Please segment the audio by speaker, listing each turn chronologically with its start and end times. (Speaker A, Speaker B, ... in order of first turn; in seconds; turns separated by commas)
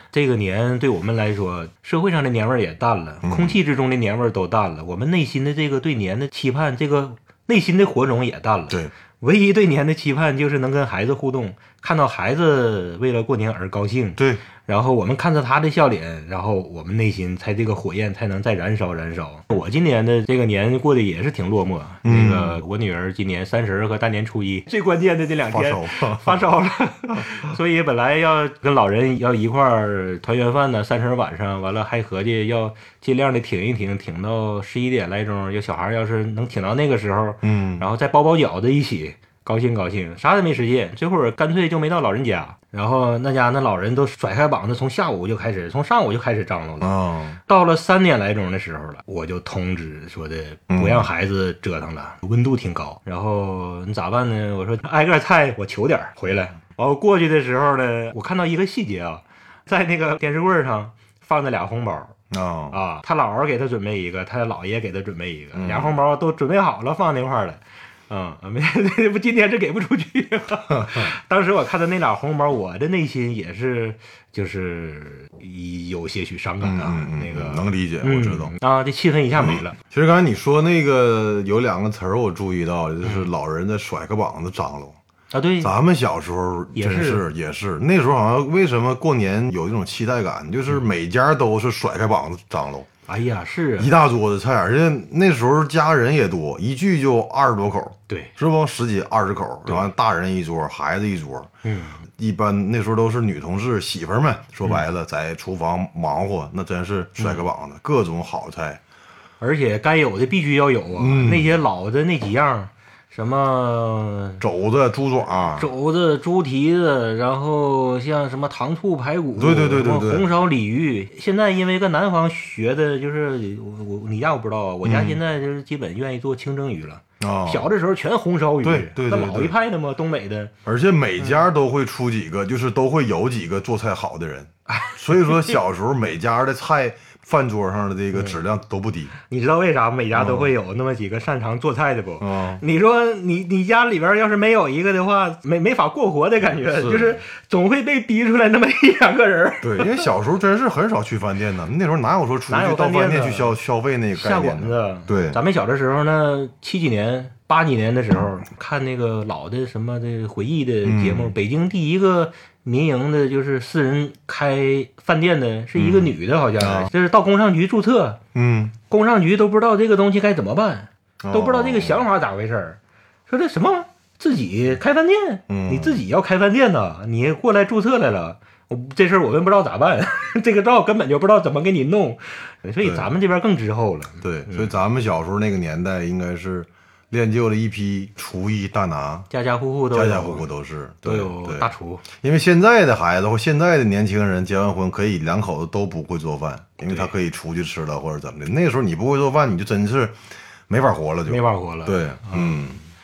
Speaker A: 0.1-46.9, Speaker B: 3.2-3.6, Speaker B: 14.2-14.4, Speaker B: 22.0-22.6, Speaker B: 25.5-26.4, Speaker B: 37.4-37.8, Speaker B: 46.8-47.4, Speaker A: 47.5-62.1, Speaker B: 50.7-51.1, Speaker B: 62.3-62.8, Speaker A: 62.7-79.8, Speaker B: 65.5-65.9, Speaker B: 70.7-71.1, Speaker B: 76.6-78.5, Speaker B: 79.4-85.0, Speaker A: 83.0-83.3, Speaker A: 85.3-85.7, Speaker B: 85.6-92.9, Speaker A: 86.7-87.2, Speaker A: 93.1-93.9, Speaker B: 93.8-101.5, Speaker A: 101.6-102.0, Speaker B: 102.1-108.8, Speaker A: 107.2-107.4, Speaker A: 109.4-114.4, Speaker B: 111.0-111.6, Speaker B: 114.4-115.7, Speaker A: 115.6-130.5, Speaker B: 119.4-120.2, Speaker B: 124.8-125.2, Speaker B: 127.2-127.7, Speaker B: 128.6-129.5, Speaker B: 130.6-139.1, Speaker A: 134.7-135.5, Speaker A: 138.1-138.4, Speaker A: 139.2-150.1, Speaker B: 140.1-140.5, Speaker B: 142.2-142.6, Speaker B: 146.5-147.2, Speaker B: 149.6-155.4, Speaker A: 152.5-153.5, Speaker A: 154.1-168.2, Speaker B: 160.8-161.3, Speaker B: 165.8-166.9, Speaker B: 168.3-168.7, Speaker A: 168.9-184.7, Speaker B: 171.2-172.1, Speaker B: 175.5-176.0, Speaker B: 182.8-183.1, Speaker B: 184.2-189.3, Speaker A: 189.3-190.5, Speaker B: 189.9-202.8, Speaker A: 191.0-192.0, Speaker A: 201.3-202.6